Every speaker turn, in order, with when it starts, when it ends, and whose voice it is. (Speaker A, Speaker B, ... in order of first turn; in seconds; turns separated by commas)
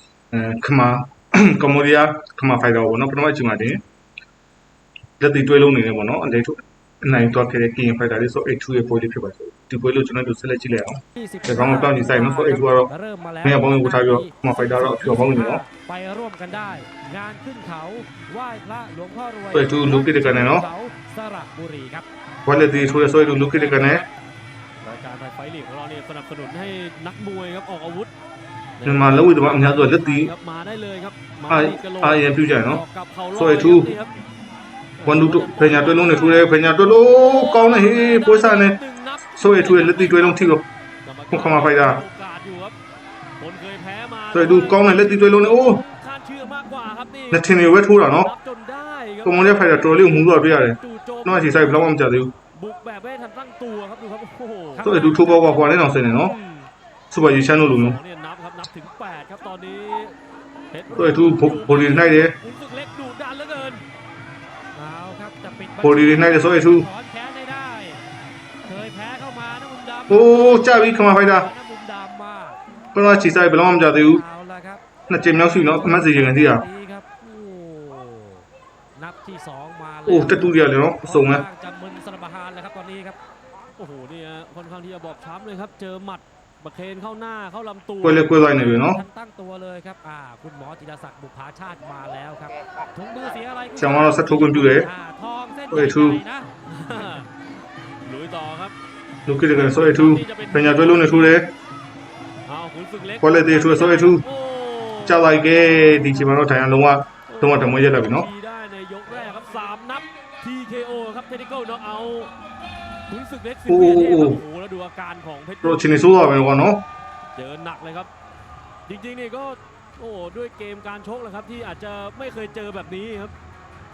Speaker A: 0.3-3.8, Speaker A: 5.2-12.9, Speaker B: 11.2-22.1, Speaker A: 13.4-15.6, Speaker A: 19.5-20.7, Speaker A: 22.5-24.1, Speaker B: 22.9-23.9, Speaker C: 24.8-28.1, Speaker C: 28.8-34.1, Speaker A: 28.8-30.3, Speaker A: 31.5-34.0, Speaker C: 35.0-40.3, Speaker A: 35.0-38.8, Speaker A: 39.4-40.6, Speaker C: 41.0-42.8, Speaker A: 41.3-42.0, Speaker C: 43.4-51.8, Speaker A: 44.3-45.8, Speaker A: 47.3-48.3, Speaker A: 49.2-52.3, Speaker C: 52.5-55.1, Speaker A: 54.8-56.4, Speaker B: 55.0-55.6, Speaker C: 56.2-56.7, Speaker A: 57.1-58.0, Speaker C: 57.4-60.2, Speaker C: 60.7-63.9, Speaker A: 60.9-62.4, Speaker B: 64.8-68.0, Speaker A: 65.8-66.9, Speaker B: 68.7-72.6, Speaker A: 70.1-71.5, Speaker A: 72.9-74.2, Speaker B: 73.3-78.5, Speaker A: 75.1-76.6, Speaker B: 79.0-83.2, Speaker A: 80.1-81.4, Speaker C: 83.8-88.4, Speaker A: 88.0-89.0, Speaker B: 88.4-96.5, Speaker A: 93.8-94.9, Speaker A: 95.7-96.2, Speaker C: 96.7-97.3, Speaker C: 98.0-98.8, Speaker A: 99.3-101.5, Speaker C: 99.5-101.3, Speaker C: 102.5-106.2, Speaker A: 103.2-104.2, Speaker A: 105.0-108.3, Speaker C: 107.3-112.4, Speaker C: 112.9-116.1, Speaker A: 113.7-114.4, Speaker A: 115.6-116.8, Speaker C: 117.3-118.1, Speaker C: 118.9-123.3